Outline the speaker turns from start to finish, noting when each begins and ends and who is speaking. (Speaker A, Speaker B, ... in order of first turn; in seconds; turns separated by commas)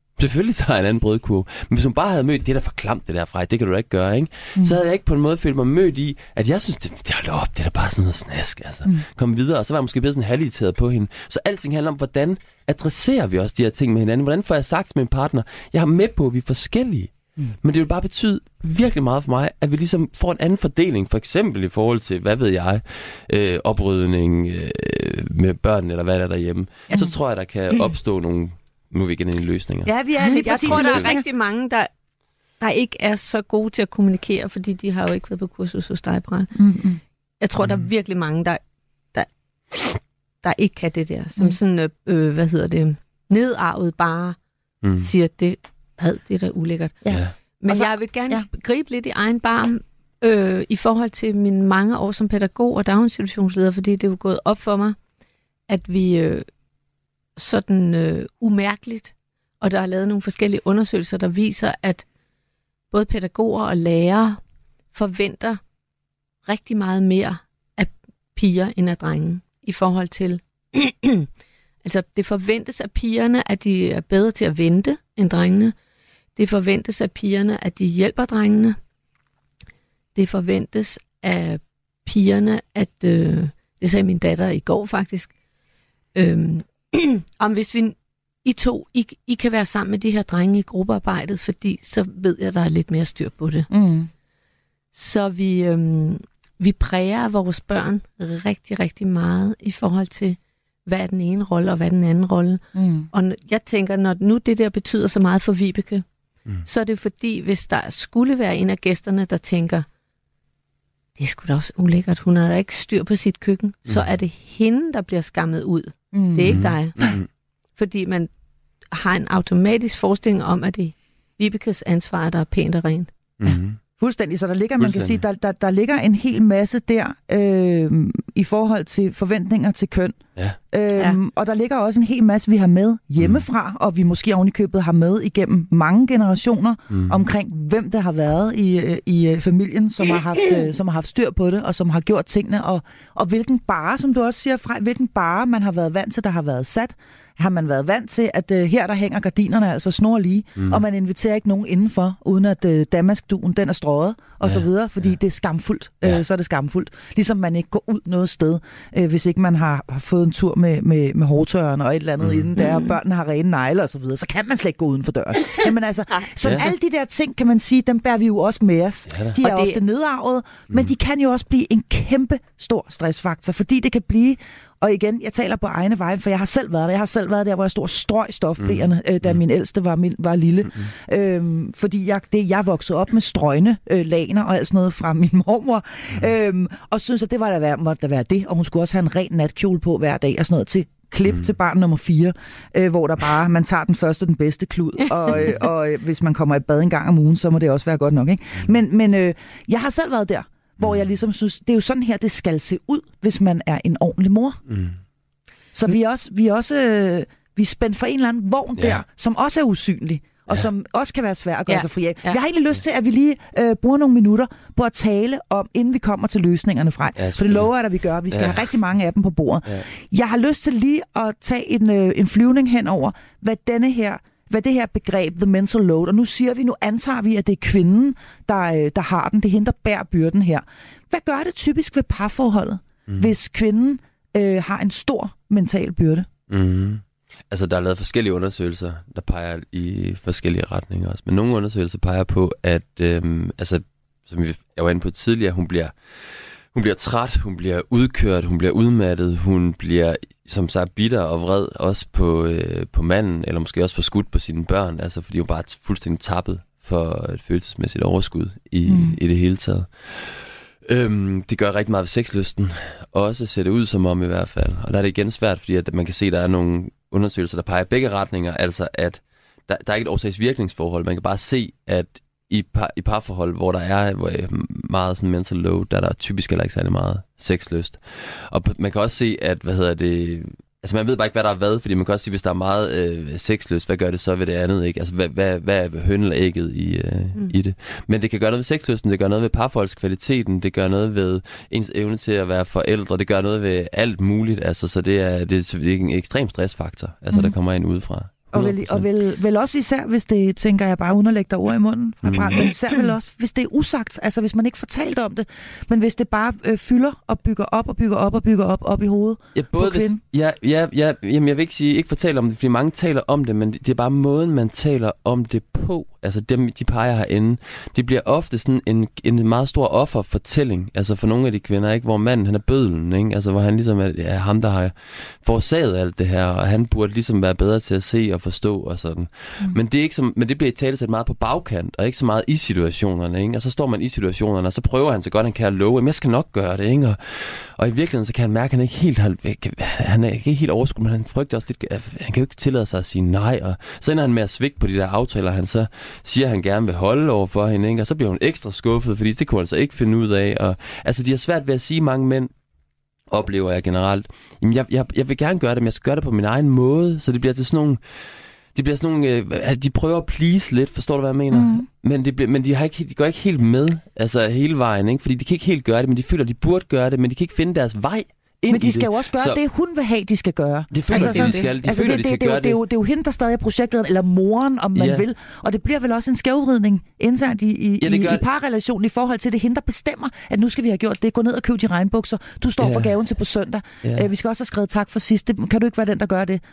Speaker A: 0.2-29.9, Speaker B: 29.9-31.2, Speaker C: 30.2-31.9, Speaker A: 30.6-31.1, Speaker C: 32.6-36.5, Speaker B: 36.5-37.0, Speaker C: 37.4-38.6, Speaker C: 39.1-44.4, Speaker A: 44.8-45.1, Speaker C: 45.0-47.0, Speaker B: 47.0-48.5, Speaker A: 47.1-47.3, Speaker C: 47.6-55.0, Speaker C: 55.7-56.5, Speaker C: 57.4-62.0, Speaker C: 62.9-64.4, Speaker C: 64.9-65.6, Speaker C: 66.5-71.3, Speaker C: 71.8-75.8, Speaker C: 76.4-78.8, Speaker C: 80.2-85.3, Speaker C: 86.2-93.7, Speaker B: 93.7-94.1, Speaker C: 94.9-106.0, Speaker B: 102.7-103.1, Speaker C: 106.7-109.9, Speaker C: 111.2-117.0, Speaker B: 116.1-117.1, Speaker A: 116.5-117.3, Speaker C: 117.8-118.3, Speaker C: 118.9-123.1, Speaker A: 123.4-123.8, Speaker B: 123.5-130.2, Speaker A: 124.8-125.2, Speaker B: 130.7-204.6, Speaker A: 136.9-137.2, Speaker A: 150.6-150.8, Speaker A: 162.2-162.5, Speaker C: 162.6-162.9, Speaker A: 166.4-166.7, Speaker A: 169.1-169.4, Speaker C: 169.4-169.8, Speaker A: 178.6-178.9, Speaker A: 204.7-205.0, Speaker B: 205.7-236.3, Speaker C: 211.7-212.4, Speaker A: 217.2-217.7, Speaker A: 218.3-218.7, Speaker A: 236.5-299.1, Speaker B: 258.9-259.2, Speaker B: 298.5-310.2, Speaker A: 302.2-302.7, Speaker A: 309.6-352.5, Speaker A: 353.3-358.0, Speaker A: 358.8-369.6, Speaker B: 361.5-361.9, Speaker B: 368.7-386.6, Speaker A: 370.9-372.8, Speaker C: 371.1-371.7, Speaker A: 375.0-375.2, Speaker A: 378.0-378.4, Speaker A: 382.8-383.1, Speaker A: 384.0-384.3